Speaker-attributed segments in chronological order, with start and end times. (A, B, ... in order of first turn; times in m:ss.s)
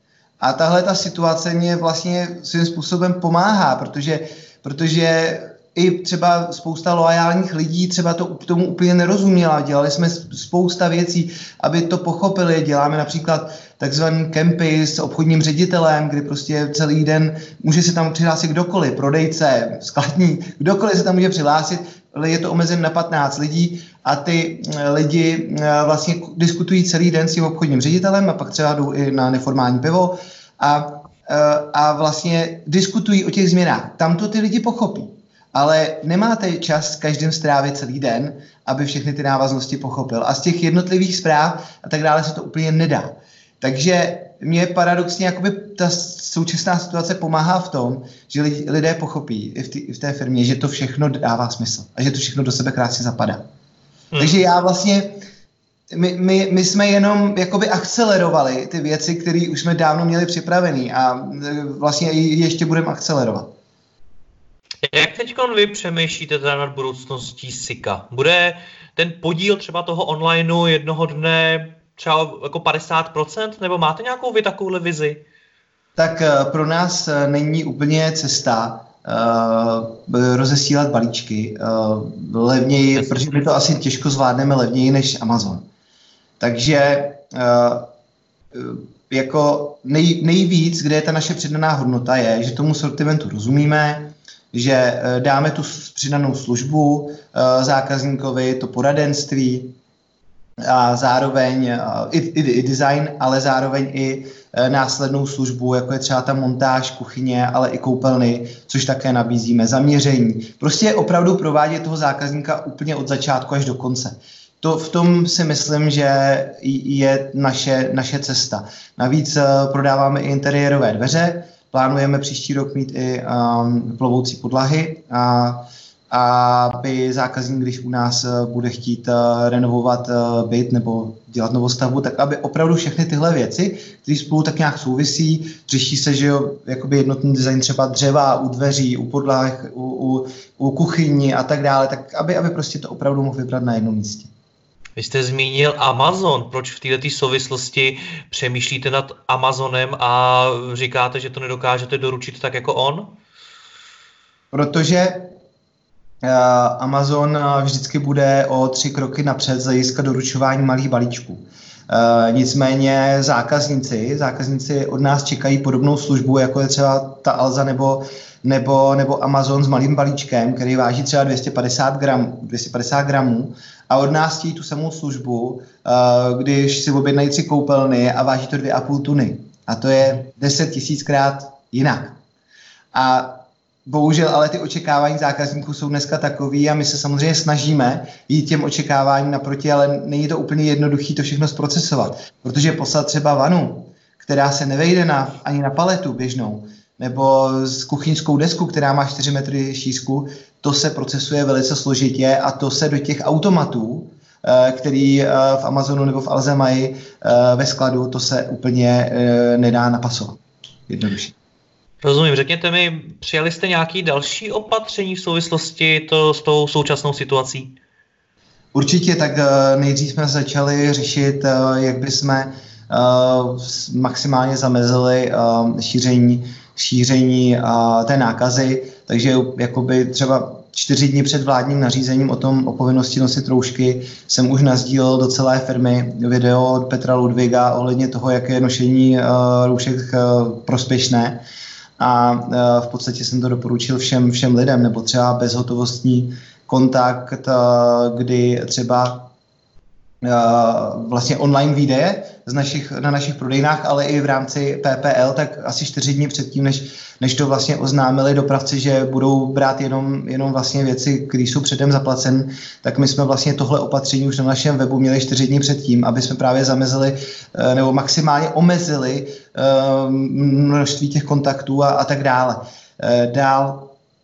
0:00.4-0:53.4 A
0:54.1-0:54.4 B
0:54.2-0:55.2 A
0:55.9-1:03.5 A
1:04.9-1:15.2 B
1:16.0-1:25.6 A
1:23.0-1:23.3 B
1:26.4-1:27.9 A
1:28.5-1:39.8 A
1:40.6-2:24.3 A
2:25.0-2:33.1 B
2:34.5-2:35.3 A
2:36.2-3:02.2 A
3:02.9-3:31.3 A
3:32.0-3:37.7 B
3:38.7-4:01.4 A
4:02.0-4:09.3 A
4:10.2-4:33.9 A